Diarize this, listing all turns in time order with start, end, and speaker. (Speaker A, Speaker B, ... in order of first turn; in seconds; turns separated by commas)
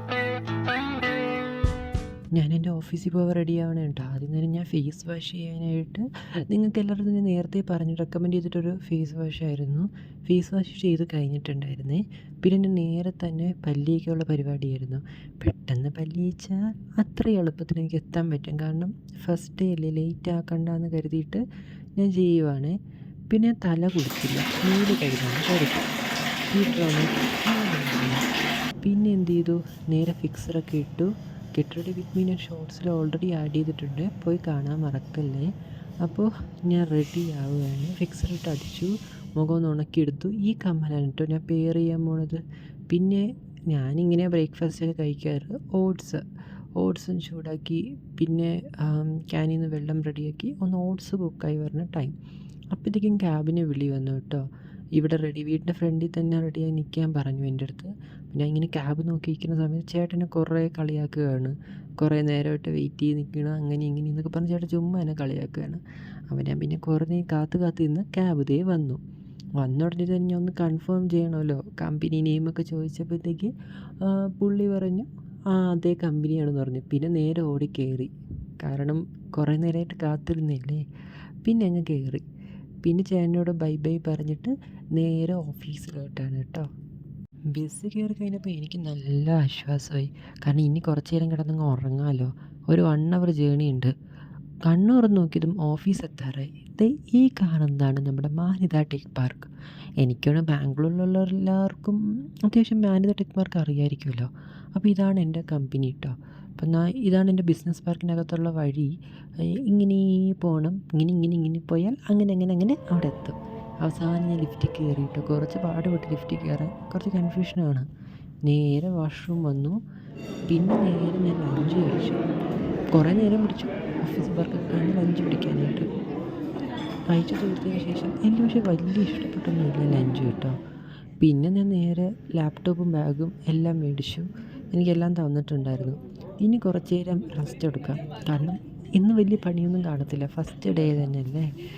Speaker A: 2.3-21.4, Speaker A: 22.0-22.7, Speaker A: 23.3-25.9, Speaker A: 26.5-28.2, Speaker A: 28.8-35.5, Speaker A: 36.0-46.2, Speaker A: 46.8-52.1, Speaker A: 52.7-54.4, Speaker A: 55.0-69.0, Speaker A: 69.6-80.8, Speaker A: 81.4-82.2, Speaker A: 82.8-86.7, Speaker A: 87.5-93.9, Speaker A: 94.7-99.5, Speaker A: 100.0-108.9, Speaker A: 109.6-117.8, Speaker A: 118.5-119.8, Speaker A: 120.5-122.2, Speaker A: 122.9-125.8, Speaker A: 127.1-130.6, Speaker A: 131.2-141.5